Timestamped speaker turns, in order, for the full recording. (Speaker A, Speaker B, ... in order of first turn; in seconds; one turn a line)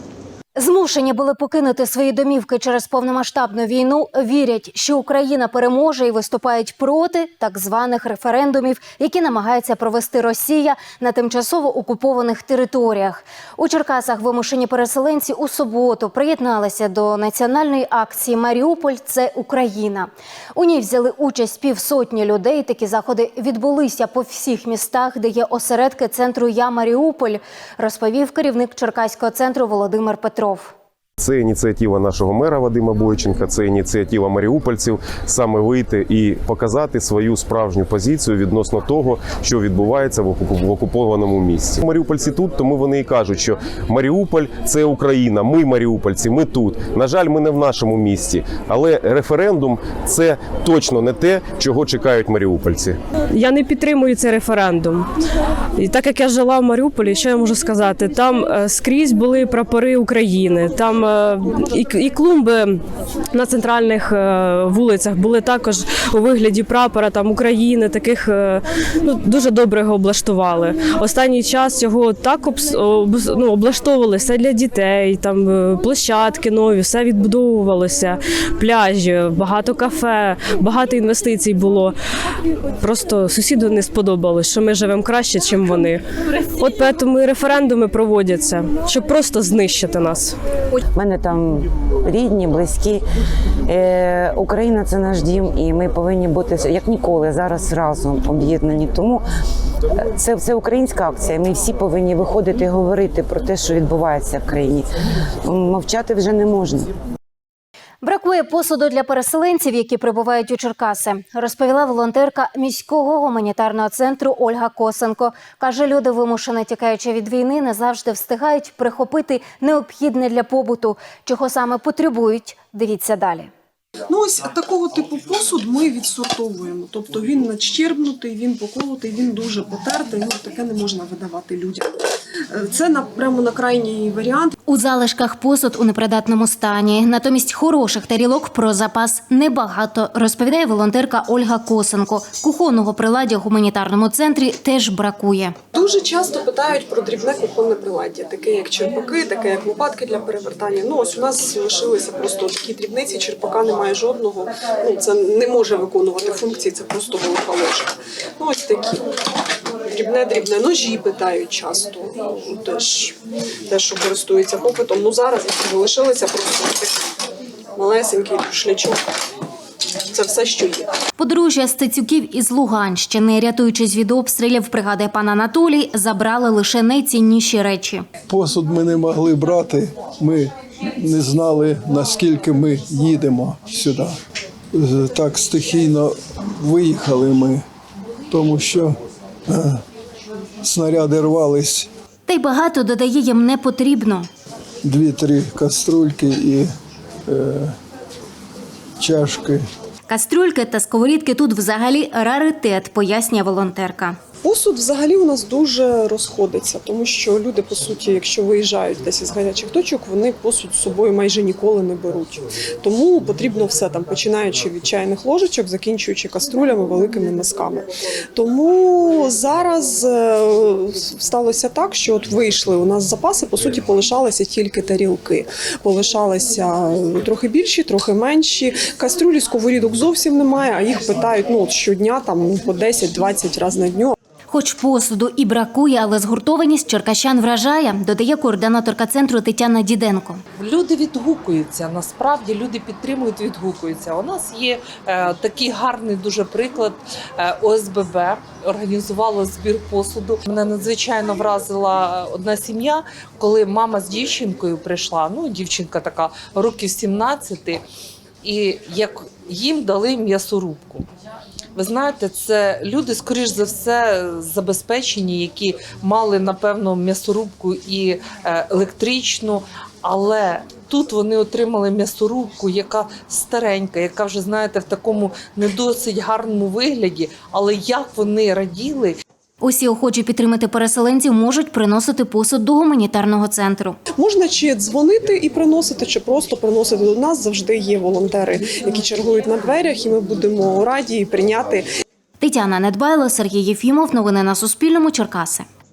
Speaker A: 0.6-30.7
Speaker B: 31.2-53.0
Speaker C: 53.4-55.0
Speaker C: 55.8-62.7
Speaker C: 63.3-81.9
Speaker C: 82.8-86.0
Speaker C: 86.6-90.3
Speaker D: 90.9-93.0
Speaker D: 93.7-99.2
Speaker D: 100.0-104.8
Speaker D: 105.4-106.9
Speaker A: 108.0-123.5
Speaker E: 124.1-131.9
Speaker E: 132.5-134.5
Speaker A: 134.7-145.5
Speaker E: 145.7-159.0
Speaker E: 159.9-163.1
Speaker E: 163.7-167.0
Speaker E: 167.8-169.0
Speaker E: 170.1-170.9
Speaker A: 171.2-178.1
Speaker F: 178.3-180.5
Speaker F: 181.0-184.1
Speaker F: 184.7-187.6
Speaker F: 188.3-188.9
Speaker F: 189.5-189.8
Speaker F: 190.6-191.9
Speaker A: 192.3-194.3
Speaker F: 194.8-196.7
Speaker F: 197.3-197.7
Speaker F: 199.0-199.7
Speaker A: 200.1-204.2
Speaker E: 204.4-234.1
Speaker A: 234.5-240.4
Speaker G: 240.6-257.8
Speaker G: 258.4-261.1
Speaker G: 261.8-279.1
Speaker A: 279.6-284.0
Speaker E: 284.2-291.9
Speaker A: 292.4-295.6